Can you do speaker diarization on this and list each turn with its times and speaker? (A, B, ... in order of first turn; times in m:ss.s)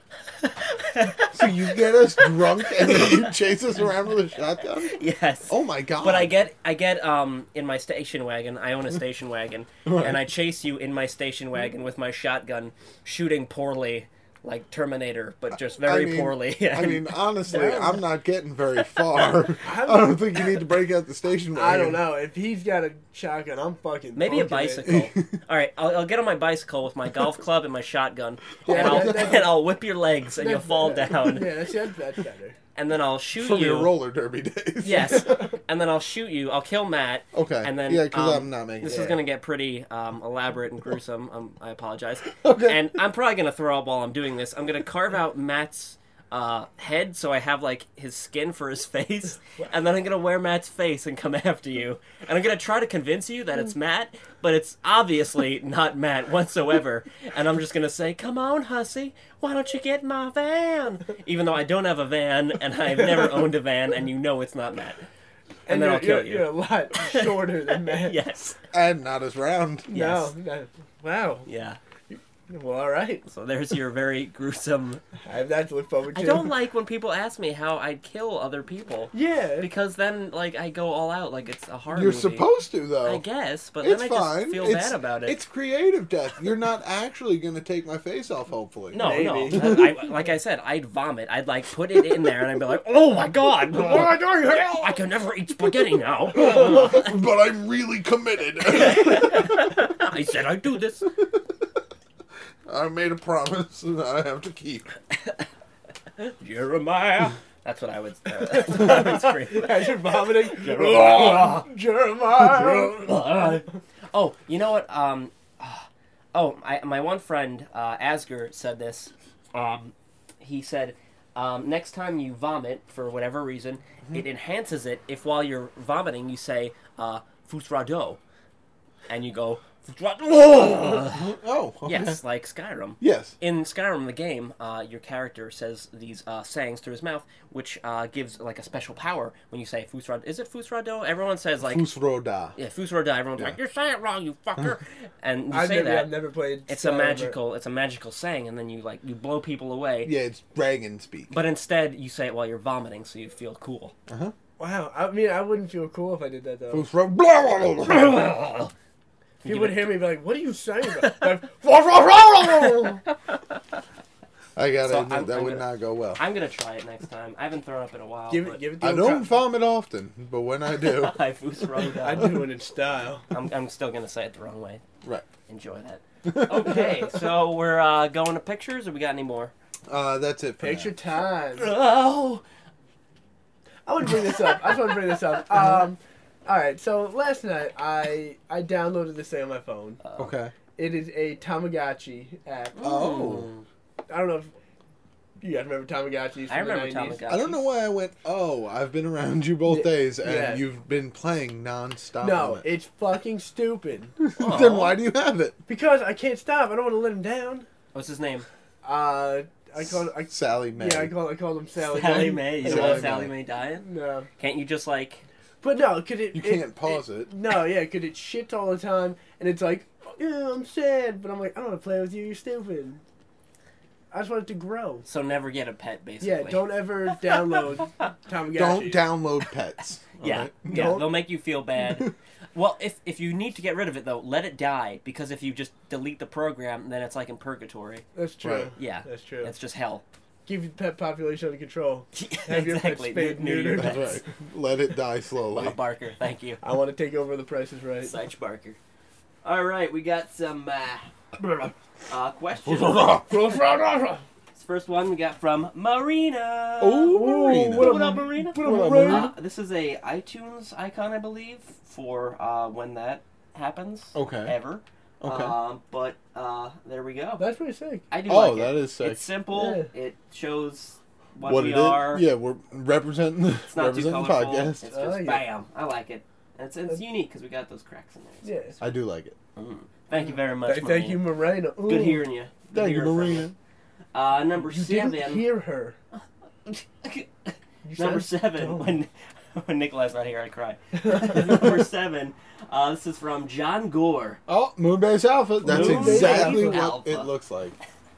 0:00.4-0:01.5 A
0:01.3-0:06.3 B
0:02.2-0:03.2 A
0:04.8-0:17.9 A
0:09.8-0:10.2 B
0:15.8-0:22.0 B
0:17.5-0:17.9 C
0:19.6-0:20.3 C
0:21.5-0:25.0 C
0:24.2-0:31.5 A
0:24.8-0:25.4 B
0:28.7-0:29.6 C
0:28.7-0:29.5 B
0:30.4-0:32.6 C
0:32.8-0:33.9 A
0:33.4-0:35.3 B
0:34.8-1:05.0 A
0:34.9-0:35.5 C
0:37.3-0:39.2 B
0:38.9-0:39.2 C
0:42.4-0:42.9 B
1:05.7-1:08.2 C
1:05.7-1:06.5 A
1:07.1-1:08.6 A
1:08.7-1:09.9 B
1:09.9-1:10.3 A
1:09.9-1:11.5 C
1:11.5-1:11.8 A
1:12.1-1:13.2 C
1:13.2-1:15.0 A
1:15.3-1:16.5 C
1:16.2-1:22.5 A
1:19.1-1:19.7 C
1:21.9-1:23.2 B
1:23.0-1:25.4 A
1:23.8-1:29.8 B
1:28.9-1:37.1 A
1:29.0-1:29.8 C
1:33.8-1:34.9 C
1:36.3-1:39.7 B
1:38.8-1:41.1 A
1:42.7-1:44.9 B
1:46.4-1:51.7 A
1:48.5-1:53.6 C
1:52.8-2:08.2 A
2:09.1-2:11.3 A
2:11.0-2:12.2 B
2:11.9-2:21.9 A
2:13.0-2:13.4 B
2:21.6-2:22.6 B
2:22.6-2:26.2 A
2:25.5-2:27.4 C
2:26.7-2:30.1 A
2:30.0-2:31.3 B
2:31.3-2:33.9 A
2:34.1-2:34.3 B
2:34.6-2:36.9 C
2:36.7-2:38.2 B
2:37.9-2:38.7 A
2:39.4-2:40.0 A
2:39.4-2:43.0 C
2:44.6-2:46.2 B
2:44.8-2:48.6 A
2:48.3-2:49.4 C
2:48.8-2:51.2 B
2:50.8-2:52.4 A
2:52.0-2:53.3 C
2:53.3-2:54.8 A
2:55.5-2:59.5 A
2:56.3-2:57.1 B
2:59.9-3:00.9 B
3:00.6-3:01.7 C
3:01.6-3:02.4 A
3:03.9-3:10.0 C
3:10.0-3:10.3 A
3:10.2-3:10.6 B
3:10.8-3:13.0 C
3:12.8-3:13.6 A
3:12.8-3:13.5 B
3:14.1-3:14.5 C
3:15.4-3:17.2 C
3:16.5-3:17.6 A
3:17.3-3:22.7 B
3:19.7-3:20.6 C
3:22.2-3:24.2 C
3:24.2-3:25.6 B
3:24.4-3:25.0 A
3:25.7-3:27.7 C
3:27.9-3:28.5 A
3:28.8-3:34.3 C
3:30.3-3:31.2 B
3:31.8-3:33.8 A
3:32.6-3:33.3 B
3:34.4-3:35.2 A
3:35.6-3:43.0 C
3:36.3-3:37.3 B
3:44.1-3:45.0 C
3:45.1-3:46.7 A
3:46.2-3:49.1 C
3:48.5-3:51.0 B
3:50.2-3:58.0 A
3:50.7-3:51.2 C
3:58.2-3:59.5 C
3:58.4-3:58.7 B
3:58.8-4:00.0 A
4:00.5-4:04.2 C
4:02.1-4:04.2 A
4:03.8-4:05.8 B
4:05.6-4:06.6 A
4:06.6-4:08.1 C
4:08.0-4:08.8 A
4:09.4-4:11.1 A
4:12.1-4:13.2 A
4:12.6-4:13.3 B
4:13.3-4:14.2 C
4:14.5-4:27.4 A
4:16.8-4:18.0 B
4:17.1-4:19.4 C
4:18.6-4:19.3 B
4:24.1-4:24.6 B
4:25.2-4:25.6 B
4:27.4-4:28.1 C
4:28.1-4:32.3 A
4:28.3-4:29.3 B
4:29.5-4:29.9 C
4:31.4-4:34.9 B
4:33.7-4:38.8 A
4:34.8-4:35.5 C
4:38.4-4:38.8 C
4:38.8-4:39.4 B
4:39.6-4:41.3 A
4:40.6-4:42.3 C
4:41.8-4:43.5 A
4:42.7-4:43.6 B
4:44.1-4:45.5 A
4:44.6-4:46.0 C
4:46.7-4:54.4 A
4:47.8-4:49.0 C
4:51.0-4:51.8 C
4:54.5-4:57.8 B
4:55.6-4:56.8 C
4:55.6-4:57.3 A